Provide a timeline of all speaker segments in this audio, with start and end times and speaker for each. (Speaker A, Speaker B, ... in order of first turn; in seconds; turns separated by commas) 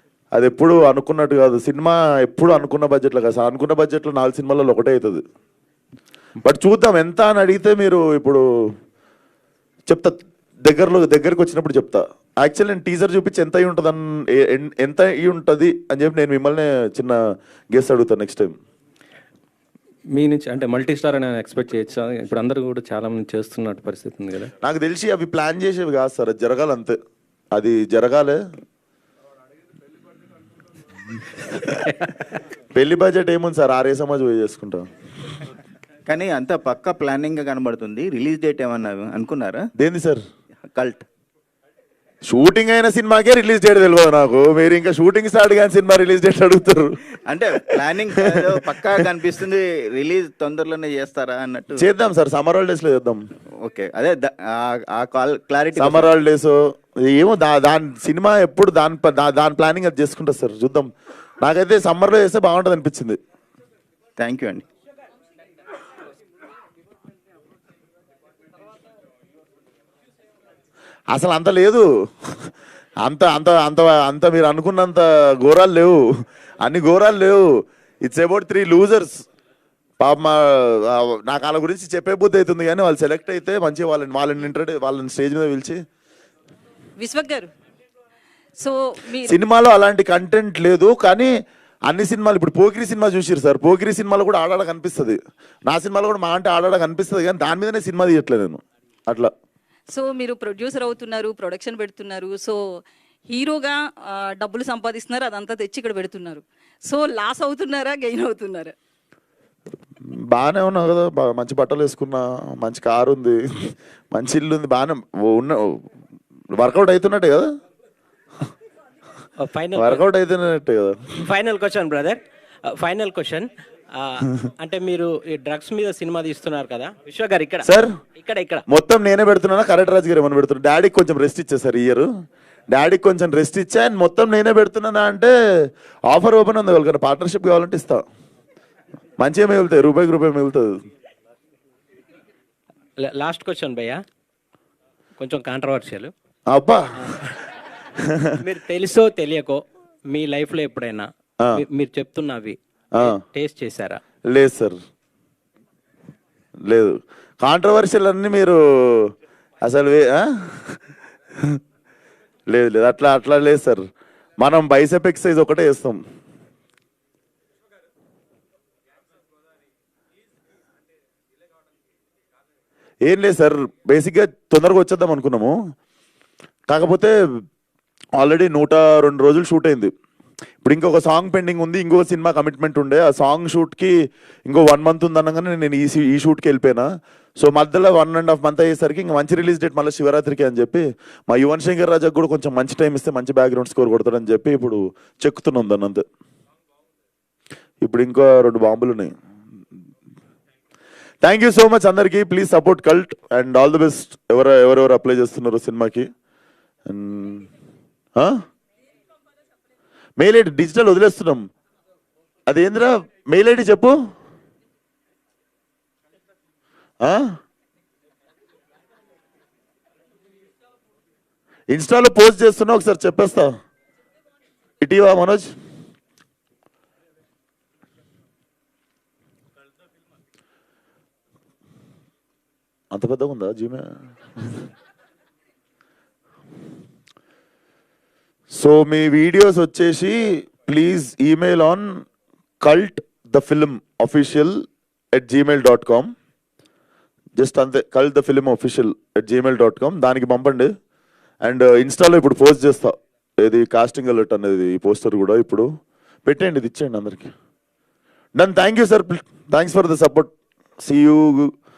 Speaker A: 0.3-5.2, Speaker A: 6.4-8.4, Speaker A: 9.9-17.2, Speaker A: 17.7-18.6, Speaker B: 20.1-24.5, Speaker A: 24.6-27.0, Speaker A: 27.5-28.4, Speaker A: 32.7-35.3, Speaker C: 36.1-39.6, Speaker A: 39.8-40.2, Speaker C: 40.6-41.0, Speaker A: 42.3-47.0, Speaker C: 47.3-51.9, Speaker A: 48.2-48.9, Speaker A: 51.8-53.2, Speaker C: 53.6-56.2, Speaker A: 55.8-63.2, Speaker C: 64.2-64.7, Speaker A: 71.1-79.3, Speaker A: 80.0-85.8, Speaker D: 87.0-87.5, Speaker D: 88.6-89.4, Speaker A: 89.2-91.3, Speaker A: 91.9-99.3, Speaker D: 99.9-108.7, Speaker A: 110.0-115.9, Speaker A: 116.6-117.5, Speaker E: 119.4-120.0, Speaker A: 119.8-121.1, Speaker E: 121.2-128.6, Speaker A: 127.6-128.0, Speaker A: 128.7-132.1, Speaker A: 132.7-135.3, Speaker A: 136.1-138.1, Speaker A: 139.2-140.8, Speaker E: 143.0-144.0, Speaker E: 145.2-146.1, Speaker A: 146.5-147.3, Speaker A: 148.0-148.3, Speaker E: 148.4-154.0, Speaker A: 154.3-154.8, Speaker A: 156.7-161.6, Speaker A: 162.5-163.8, Speaker A: 164.4-166.0, Speaker A: 173.1-175.6, Speaker A: 176.7-177.1, Speaker A: 178.2-179.9, Speaker A: 180.6-183.9, Speaker A: 184.5-196.1, Speaker A: 197.8-199.1, Speaker A: 201.2-206.1, Speaker A: 206.9-207.5, Speaker A: 208.2-208.4, Speaker A: 210.2-211.5, Speaker A: 212.5-214.0, Speaker A: 217.0-217.4, Speaker A: 221.7-223.6, Speaker A: 224.8-225.5, Speaker A: 232.9-234.6, Speaker A: 238.5-242.0, Speaker A: 242.6-244.6, Speaker A: 245.1-246.1, Speaker A: 247.4-250.7, Speaker A: 251.4-255.7, Speaker A: 256.2-257.3, Speaker A: 258.4-261.5